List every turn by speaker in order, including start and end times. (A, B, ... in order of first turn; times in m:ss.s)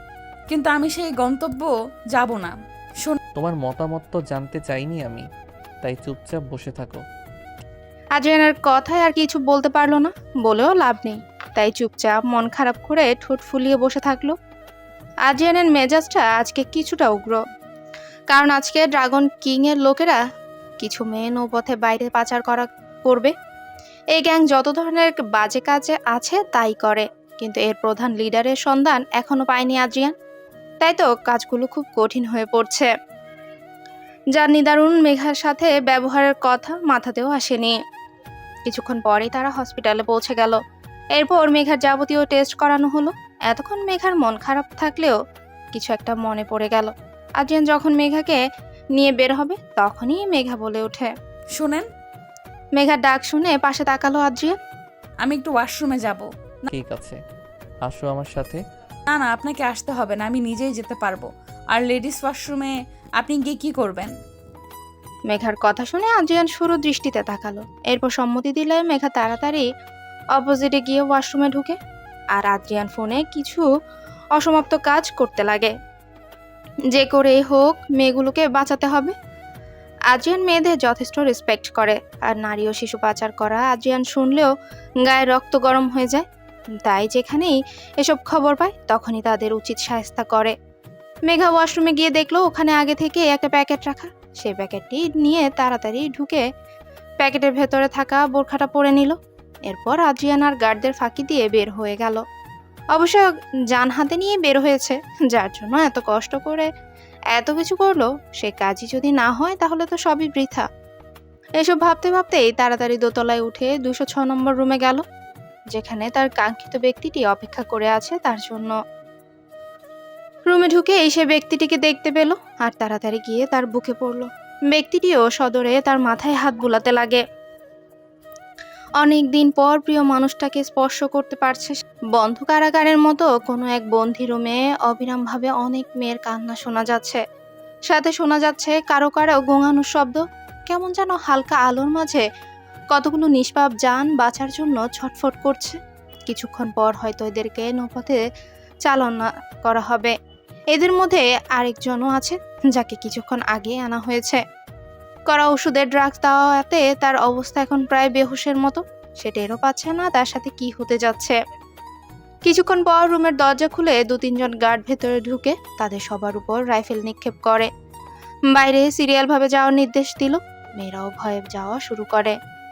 0:00.5-0:03.2 A
0:03.4-0:05.3 B
0:05.8-0:07.0 B
0:08.2-0:14.4 C
0:15.2-0:17.4 C
0:18.3-0:20.2 C
0:20.8-0:23.3 C
0:24.1-0:30.2 C
0:30.8-0:32.9 C
0:34.3-0:37.8 C
0:38.7-0:40.6 C
0:41.2-0:45.2 C
0:45.7-0:48.4 C
0:49.0-0:51.1 C
0:51.6-0:51.9 A
0:52.8-0:54.6 C
0:55.2-0:56.7 A
0:56.7-0:57.2 B
0:57.8-0:58.6 B
0:59.1-1:04.2 A
1:05.3-1:09.7 C
1:10.4-1:11.8 C
1:12.3-1:13.7 C
1:14.4-1:15.7 C
1:16.9-1:19.1 C
1:20.1-1:24.5 C
1:25.0-1:26.3 C
1:26.8-1:30.6 C
1:31.3-1:36.4 C
1:37.2-1:42.2 C
1:42.9-1:46.7 C
1:47.3-1:50.7 C
1:51.6-1:55.0 C
1:55.7-1:58.8 C
2:00.5-2:07.2 C
2:09.0-2:17.2 C
2:17.9-2:22.2 C
2:22.9-2:28.2 C
2:28.8-2:30.2 C
2:30.7-2:34.4 C
2:35.3-2:41.4 C
2:42.4-2:47.7 C
2:48.5-2:52.4 C